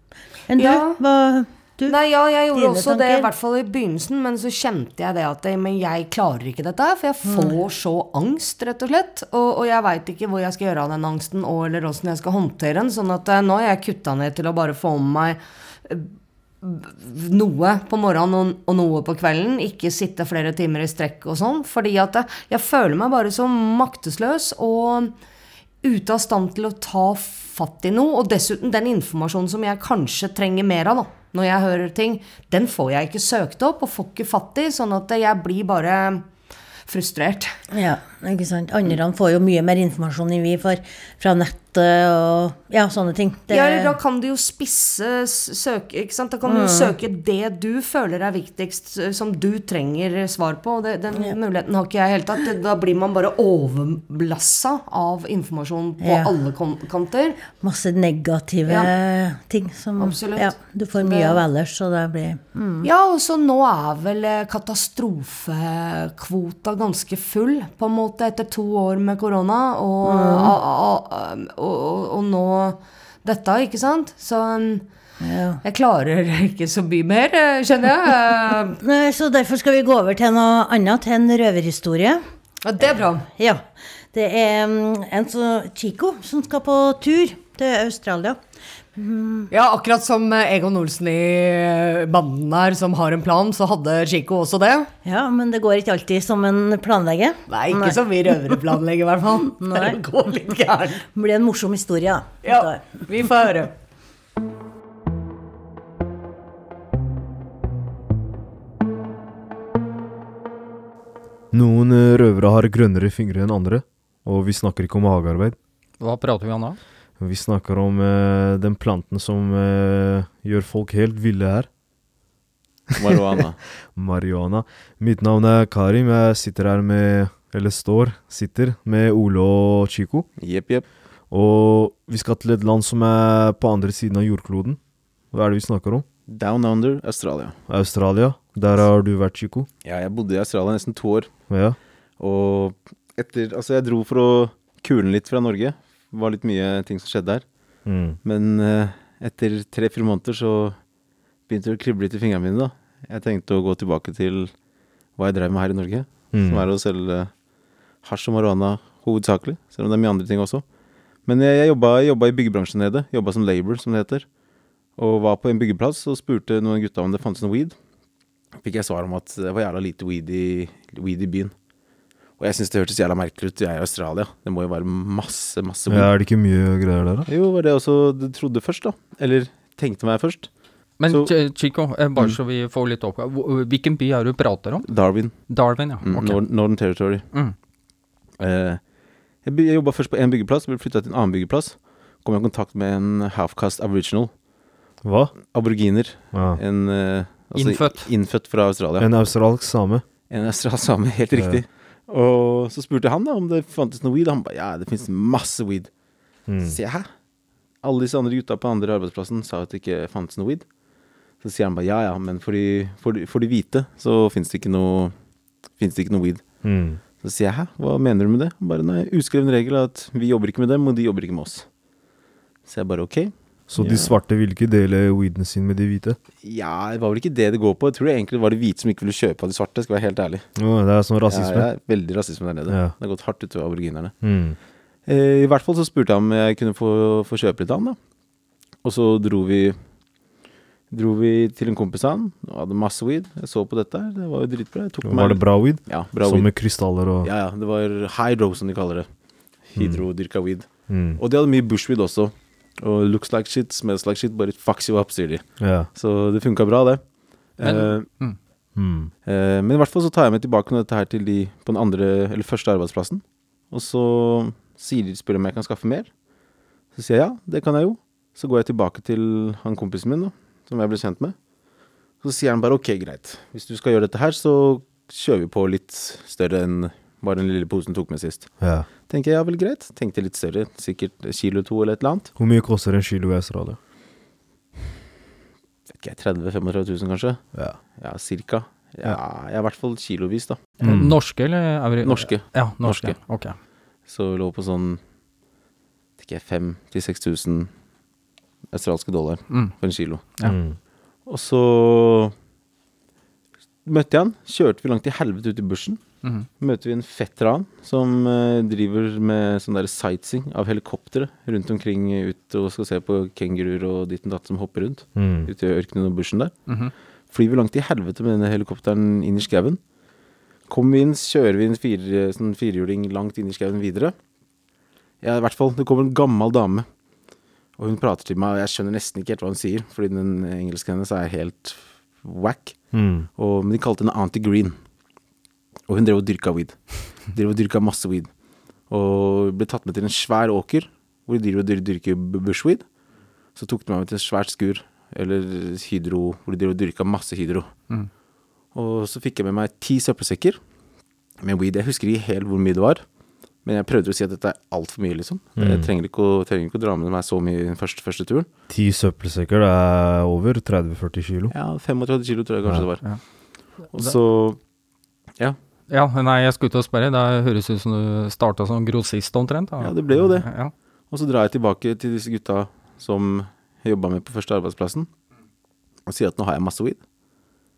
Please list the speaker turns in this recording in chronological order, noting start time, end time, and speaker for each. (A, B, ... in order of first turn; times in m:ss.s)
0:00.5-0:02.0 A
0:00.6-0:01.0 B
0:01.9-0:16.1 B
0:02.5-0:03.3 A
0:07.3-0:07.6 A
0:16.6-0:25.1 B
0:25.8-0:36.2 B
0:36.9-0:37.5 B
0:37.7-0:43.9 A
0:43.5-0:57.4 B
0:46.5-0:46.9 A
0:56.0-0:56.3 A
0:57.6-1:02.9 A
1:00.0-1:01.4 B
1:02.8-1:14.8 B
1:10.0-1:10.5 A
1:15.2-1:15.6 A
1:15.6-1:18.8 B
1:18.8-1:22.2 A
1:22.6-1:23.2 B
1:23.4-1:28.4 A
1:29.0-1:29.5 A
1:29.5-1:34.9 B
1:35.0-1:38.0 A
1:37.5-1:41.0 B
1:39.6-1:40.0 A
1:41.1-1:42.8 A
1:42.4-1:43.7 B
1:51.5-1:55.6 C
1:56.0-1:56.8 D
1:57.2-2:01.7 C
2:03.0-2:03.6 E
2:03.8-2:10.3 C
2:10.4-2:10.9 E
2:11.3-2:14.8 C
2:15.3-2:16.1 C
2:16.3-2:17.6 E
2:17.7-2:19.7 C
2:19.8-2:21.5 E
2:21.5-2:21.8 C
2:22.2-2:27.5 E
2:27.8-2:28.2 C
2:28.2-2:30.8 E
2:31.5-2:34.5 E
2:35.1-2:37.3 E
2:36.3-2:36.7 C
2:38.0-2:40.6 E
2:41.2-2:44.2 E
2:45.0-2:47.7 E
2:48.6-2:51.5 E
2:52.4-2:56.3 E
2:55.9-2:57.3 C
2:57.3-3:00.5 E
3:01.0-3:07.6 D
3:01.1-3:01.3 E
3:04.8-3:07.3 E
3:08.4-3:14.4 E
3:15.0-3:15.5 C
3:15.3-3:19.6 E
3:16.3-3:16.6 C
3:17.5-3:18.1 D
3:19.0-3:20.0 C
3:20.3-3:25.9 E
3:21.3-3:21.6 C
3:26.4-3:26.7 C
3:26.6-3:27.1 E
3:27.8-3:30.7 E
3:31.4-3:35.1 E
3:35.7-3:41.7 E
3:36.6-3:37.0 C
3:42.6-3:44.2 E
3:43.7-3:46.2 C
3:46.4-3:50.5 E
3:50.5-3:51.7 C
3:51.2-3:54.2 E
3:52.7-3:53.0 C
3:54.2-3:54.6 C
3:55.0-3:58.0 E
3:58.8-3:59.8 E
4:00.9-4:18.1 E
4:05.0-4:07.3 C
4:09.8-4:10.3 C
4:10.9-4:11.2 C
4:15.6-4:15.9 C
4:17.6-4:18.4 D
4:18.7-4:19.1 C
4:19.2-4:26.1 E
4:26.9-4:31.4 E
4:32.2-4:42.3 E
4:38.6-4:38.9 C
4:42.4-4:43.8 C
4:45.9-4:51.0 E
4:47.5-4:47.8 C
4:50.8-4:53.6 D
4:50.8-4:51.2 C
4:52.0-4:53.2 E
4:54.0-4:55.0 E
4:56.2-4:57.7 E
4:58.7-5:00.4 E
4:59.5-4:59.8 D
5:00.4-5:00.8 C
5:01.2-5:02.3 E
5:03.8-5:06.0 E
5:06.2-5:06.5 D
5:06.6-5:16.6 E
5:15.1-5:15.5 C
5:16.6-5:16.9 D
5:17.3-5:19.8 E
5:20.7-5:24.1 E
5:25.2-5:26.9 E
5:27.8-5:34.8 E
5:32.9-5:33.3 C
5:35.9-5:38.3 E
5:38.8-5:42.9 E
5:43.5-5:47.8 E
5:48.7-5:50.6 E
5:51.4-5:53.1 E
5:53.6-5:58.5 E
5:55.6-5:55.9 C
5:58.7-6:01.5 C
6:01.5-6:04.6 E
6:05.9-6:10.7 D
6:09.8-6:10.5 E
6:11.1-6:15.1 E
6:16.0-6:17.0 E